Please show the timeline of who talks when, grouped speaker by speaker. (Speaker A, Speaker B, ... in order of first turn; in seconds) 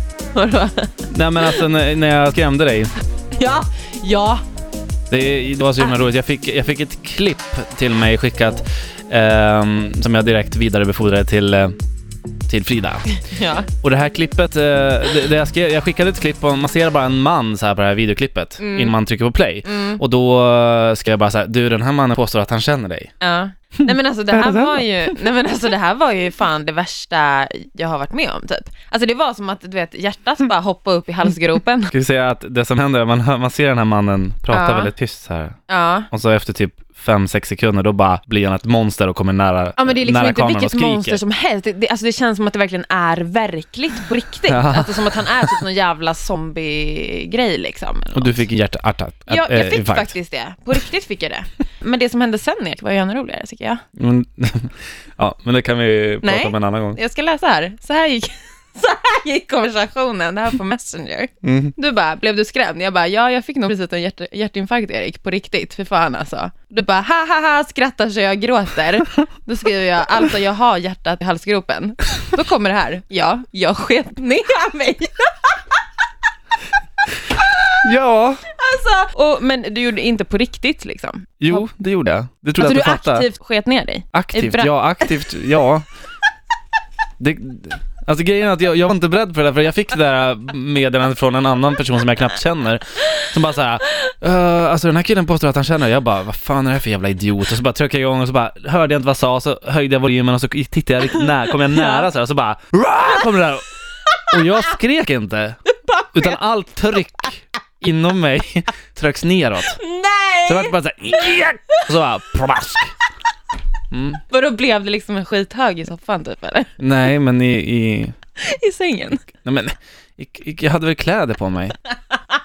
Speaker A: 0.3-1.7, 3.4-4.4, 13.2-13.7, 18.6-19.0, 19.6-20.0, 23.2-31.9, 34.5-34.9, 35.7-36.1, 39.8-48.5, 49.3-53.8, 56.2-75.6, 78.5-81.7, 82.6-85.3, 101.7-102.1, 105.8-106.4, 109.7-110.7, 114.3-116.7, 118.4-119.3
Speaker B: 1.1-2.9, 5.1-11.8, 12.5-13.2, 13.8-23.1, 24.3-25.1, 31.9-35.6, 36.1-41.2, 44.5-45.6, 48.1-50.1, 54.0-57.0, 61.4-61.7, 77.8-78.5, 81.4-83.3, 84.1-85.9, 87.2-103.7, 104.3-105.6, 106.1-109.8, 110.5-113.0, 113.9-114.2, 116.8-118.2, 119.4-121.8